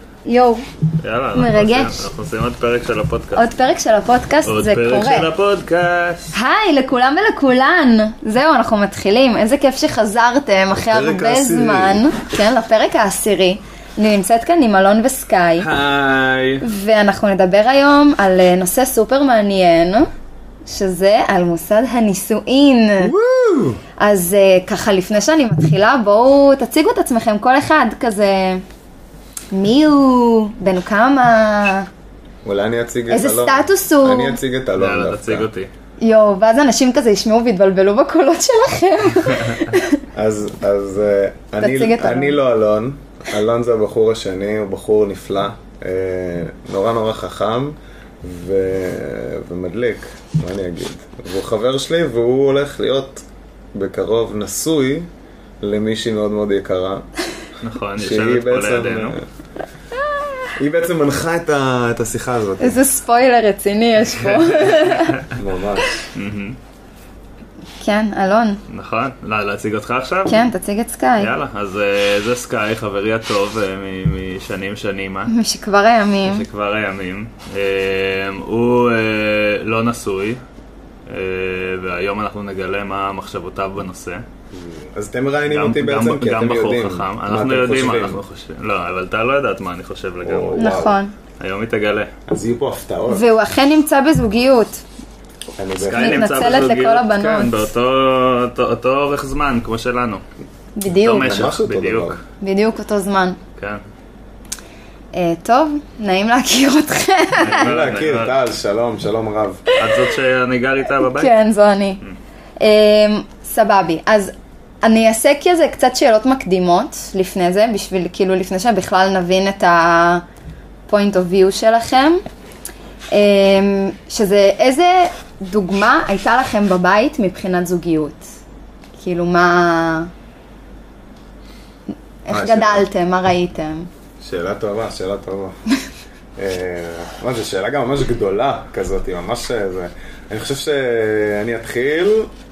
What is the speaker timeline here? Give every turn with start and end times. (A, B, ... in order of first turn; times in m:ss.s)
0:00.3-0:00.6 A
0:01.0-0:03.5 B
0:01.3-0:02.0 A
0:03.4-0:05.3 A
0:04.4-0:06.2 B
0:06.3-0:15.7 A
0:10.7-0:12.0 C
0:15.6-0:16.6 B
0:16.6-0:20.1 A
0:20.7-0:23.1 A
0:23.0-0:23.8 C
0:24.0-0:28.6 A
0:29.5-0:31.9 A
0:32.4-0:35.5 C
0:33.1-0:34.4 A
0:34.8-0:35.7 B
0:36.0-0:40.0 A
0:40.2-0:55.1 C
0:41.6-0:42.4 A
0:55.6-0:57.1 C
0:57.6-0:59.2 B
0:58.0-0:59.2 C
1:00.6-1:02.8 C
1:02.6-1:05.2 A
1:04.3-1:05.3 B
1:05.3-1:05.9 C
1:06.1-1:06.6 B
1:07.8-1:08.6 A
1:08.7-1:10.4 B
1:10.3-1:11.3 A
1:11.2-1:15.3 B
1:15.3-1:16.5 A
1:16.2-1:20.4 B
1:21.1-1:24.2 B
1:24.5-1:28.2 C
1:25.5-1:30.8 B
1:30.2-1:31.0 C
1:30.6-1:31.1 A
1:31.4-1:32.1 B
1:32.3-1:33.3 C
1:33.1-1:34.8 A
1:35.6-1:36.6 C
1:35.8-1:40.2 B
1:35.9-1:37.5 A
1:40.8-1:41.3 A
1:41.0-1:42.2 B
1:41.2-1:42.2 C
1:42.4-1:43.4 A
1:43.6-1:43.8 B
1:45.1-1:47.7 A
1:47.4-1:48.3 B
1:47.5-1:49.6 C
1:49.7-1:50.0 A
1:49.8-1:51.3 B
1:51.0-1:52.0 A
1:52.6-2:00.2 A
2:00.9-2:02.2 A
2:03.1-2:08.3 A
2:09.0-2:10.1 A
2:12.3-2:13.9 A
2:12.3-2:12.9 C
2:14.2-2:15.6 C
2:16.4-2:22.3 C